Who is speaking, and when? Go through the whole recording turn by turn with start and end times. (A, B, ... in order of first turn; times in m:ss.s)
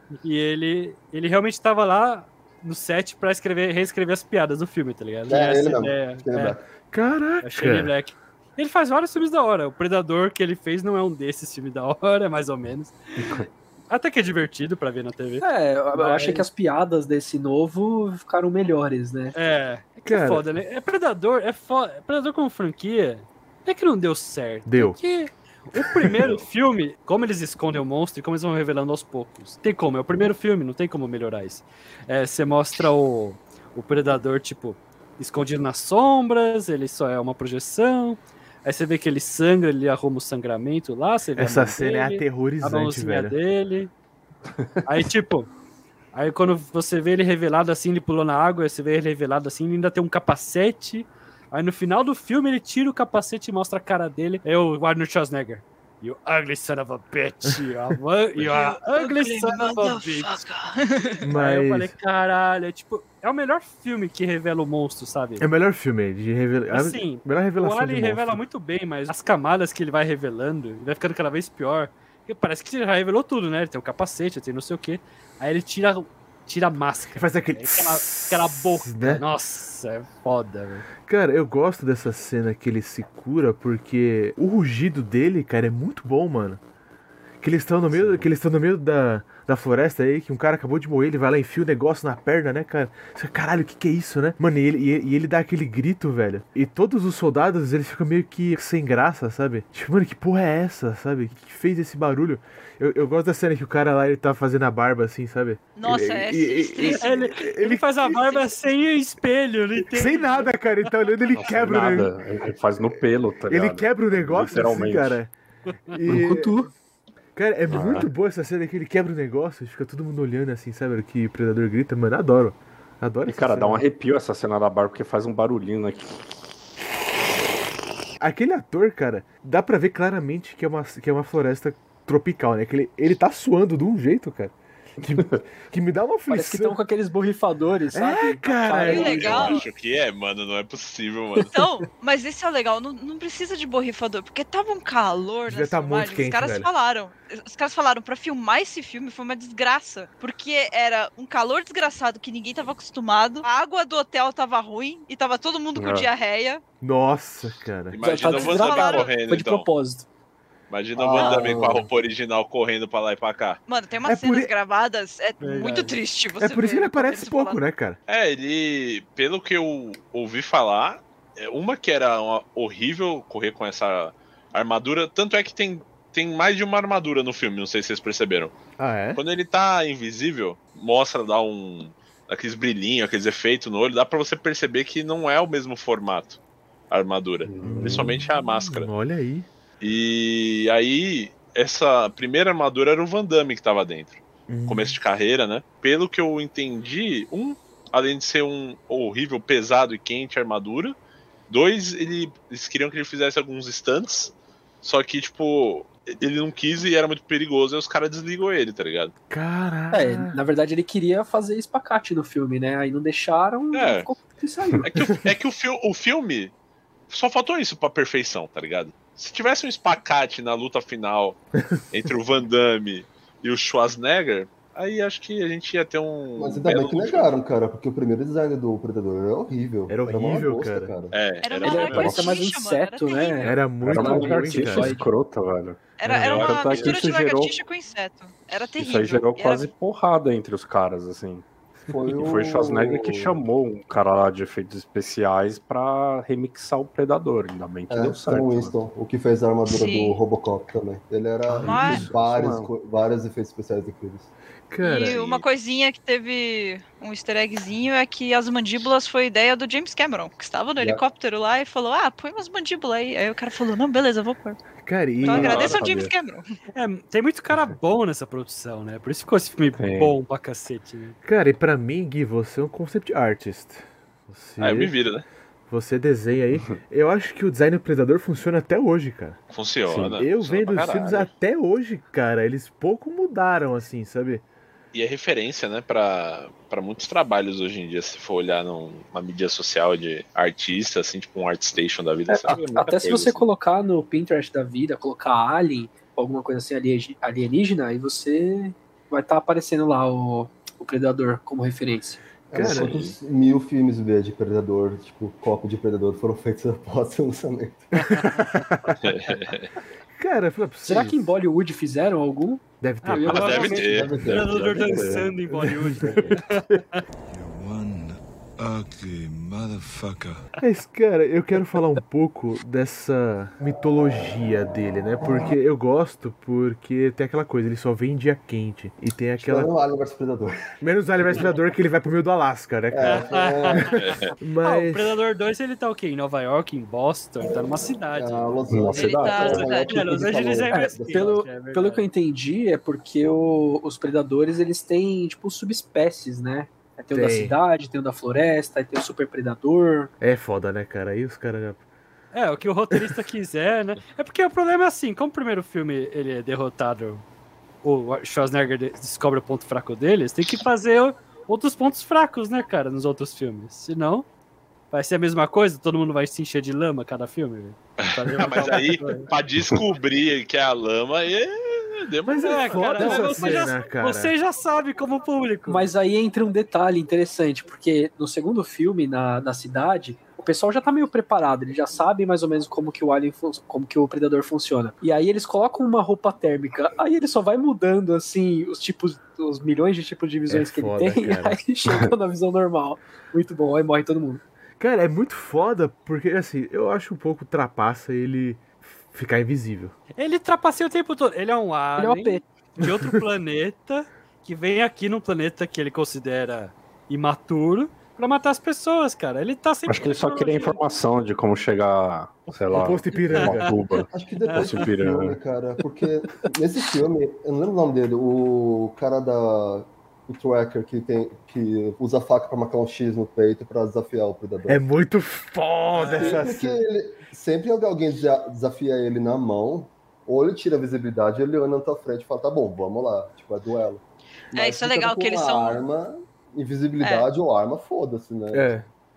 0:00.2-0:06.6 A
0:05.3-0:06.6 B
0:06.9-0:07.9 C
0:07.4-0:16.5 A
0:13.2-0:13.5 D
0:15.4-0:19.3 E
0:19.3-0:43.9 A
0:20.0-0:20.4 C
0:24.6-0:25.0 C
0:41.4-0:43.4 C
0:44.8-0:45.5 A
0:46.1-1:00.4 A
0:58.4-1:01.2 F
1:01.2-1:01.9 C
1:01.2-1:05.4 A
1:05.4-1:08.4 C
1:06.7-1:20.9 A
1:17.2-1:19.2 C
1:21.0-1:26.6 C
1:27.4-1:48.1 C
1:27.9-1:28.2 D
1:45.8-1:47.3 F
1:46.8-1:50.9 A
1:48.1-1:48.4 F
1:49.9-1:52.1 C
1:51.4-1:55.2 D
1:53.5-1:55.3 C
1:55.9-1:56.6 C
1:56.1-1:56.7 E
1:57.4-2:03.8 C
1:57.7-1:58.1 D
2:03.3-2:06.1 D
2:08.2-2:16.8 C
2:16.3-2:19.6 E
2:17.9-2:19.5 C
2:18.7-2:19.7 F
2:18.9-2:21.5 G
2:21.5-2:36.6 F
2:25.5-2:26.7 C
2:35.8-2:36.1 D
2:36.8-2:38.0 C
2:37.9-2:39.7 G
2:38.0-2:40.1 E
2:38.2-2:39.1 F
2:40.7-2:43.6 G
2:40.9-2:41.9 B
2:43.7-2:47.6 F
2:44.0-2:44.5 C
2:45.4-2:46.0 A
2:46.4-2:48.0 C
2:48.1-2:58.6 G
2:58.8-2:59.2 C
2:59.1-3:06.4 G
3:06.9-3:08.9 G
3:07.4-3:08.3 D
3:07.6-3:09.5 C
3:09.8-3:21.0 G
3:14.5-3:15.0 C
3:21.5-3:29.1 G
3:29.3-3:30.4 C
3:29.9-3:34.9 E
3:33.7-3:34.1 G
3:34.8-3:36.5 G
3:37.1-3:47.3 G
3:46.4-3:51.2 B
3:49.9-3:50.9 C
3:51.1-3:52.3 G
3:51.4-3:53.5 F
3:51.6-3:55.0 E
3:53.4-3:55.0 C
3:53.8-3:57.6 D
3:56.0-3:59.7 F
3:56.0-3:56.4 C
3:56.2-3:57.0 G
3:58.8-4:01.4 D
4:01.9-4:03.4 B
4:02.1-4:08.7 D
4:07.9-4:14.3 B
4:09.7-4:10.2 F
4:11.5-4:12.7 D
4:11.6-4:12.1 F
4:14.7-4:15.2 C
4:14.8-4:24.6 F
4:15.1-4:15.4 G
4:24.8-4:25.8 C
4:25.2-4:26.4 F
4:25.5-4:26.1 D
4:26.7-4:31.2 A
4:29.8-4:30.2 D
4:31.2-4:34.9 C
4:34.6-4:35.2 G
4:35.7-4:39.4 C
4:39.5-4:41.3 G
4:39.8-4:40.2 D
4:40.1-4:44.4 C
4:44.9-4:53.4 G
4:52.3-5:02.2 E
5:02.5-5:08.2 B
5:02.5-5:03.0 C
5:02.7-5:03.1 G
5:08.3-5:09.0 C
5:09.0-5:09.7 G
5:10.1-5:11.3 C
5:10.8-5:12.6 E
5:12.8-5:13.7 C
5:13.0-5:17.0 A
5:13.2-5:13.8 E
5:13.2-5:14.3 G
5:13.7-5:16.4 B
5:14.8-5:15.3 D
5:15.6-5:16.0 C
5:17.3-5:20.4 H
5:20.6-5:29.7 C
5:29.4-5:30.5 B
5:30.8-5:33.3 C
5:31.2-5:31.6 B
5:32.9-5:33.9 B
5:33.0-5:34.0 A
5:34.0-5:34.3 G
5:34.4-5:35.2 C
5:34.6-5:42.1 A
5:37.4-5:41.4 B
5:38.9-5:40.0 F
5:40.7-5:50.1 E
5:47.1-5:47.6 C
5:50.2-5:51.8 C
5:52.3-5:57.2 A
5:57.8-6:04.3 A
6:04.9-6:09.3 A
6:08.0-6:13.2 G
6:12.2-6:14.3 C
6:12.4-6:15.9 A
6:15.7-6:34.4 E
6:30.5-6:31.6 C
6:34.8-6:39.9 C
6:40.2-6:50.8 A
6:42.0-6:42.4 E
6:42.8-6:43.1 C
6:49.9-6:55.4 D
6:52.7-6:53.7 C
6:53.1-6:53.8 A
6:54.1-7:04.8 B
6:54.4-6:54.9 A
7:04.7-7:06.8 C
7:06.0-7:06.4 A
7:06.0-7:14.0 B
7:14.5-7:18.8 B
7:14.5-7:15.8 F
7:17.0-7:17.3 F
7:18.5-7:18.8 C